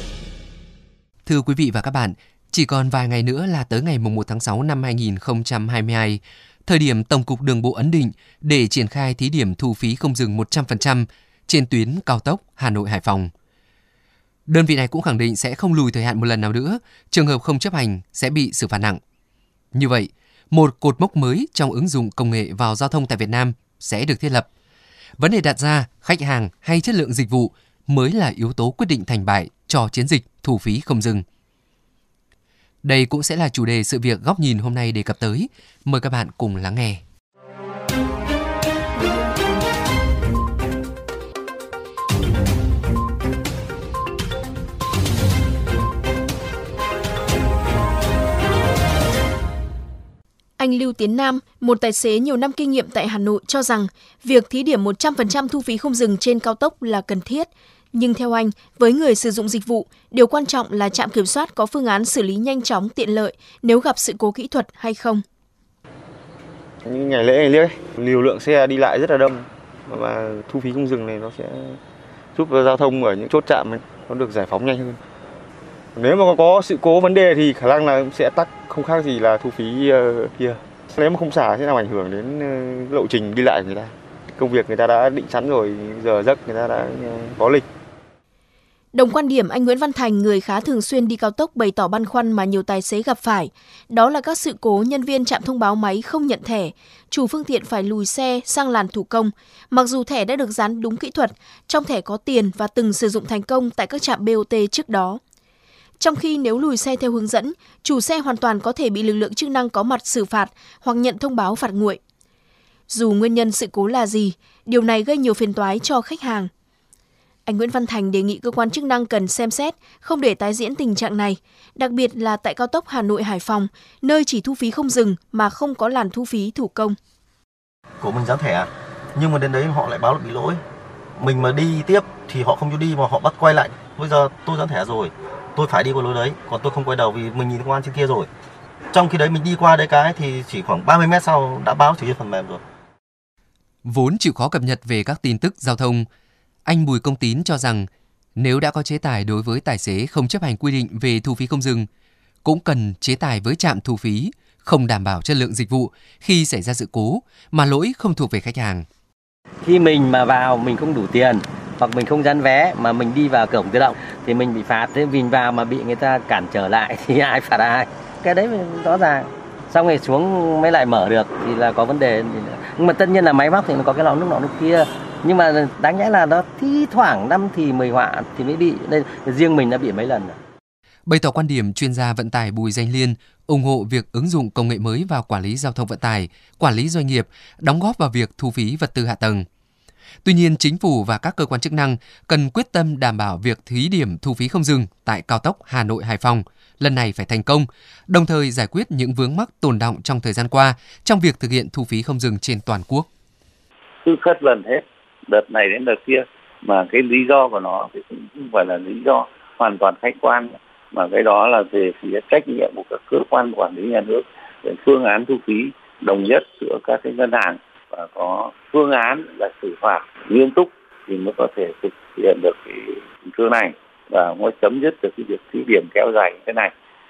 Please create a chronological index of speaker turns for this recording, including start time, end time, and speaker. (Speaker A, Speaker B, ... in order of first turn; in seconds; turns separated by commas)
Speaker A: 1.2-13.3, Speaker A: 14.5-19.0, Speaker A: 19.7-24.5, Speaker A: 25.2-31.2, Speaker A: 32.8-37.0, Speaker B: 50.6-65.2, Speaker C: 66.8-71.8, Speaker C: 72.3-75.0, Speaker C: 76.0-87.7, Speaker B: 88.9-105.2, Speaker B: 106.0-112.0, Speaker B: 112.9-116.5, Speaker B: 117.5-127.0, Speaker D: 128.0-130.6, Speaker D: 131.2-138.3, Speaker D: 138.9-142.6, Speaker A: 143.8-146.1, Speaker A: 146.6-151.9, Speaker A: 152.4-158.8, Speaker E: 159.6-180.4, Speaker A: 181.1-189.5, Speaker A: 190.2-203.1, Speaker F: 204.0-226.7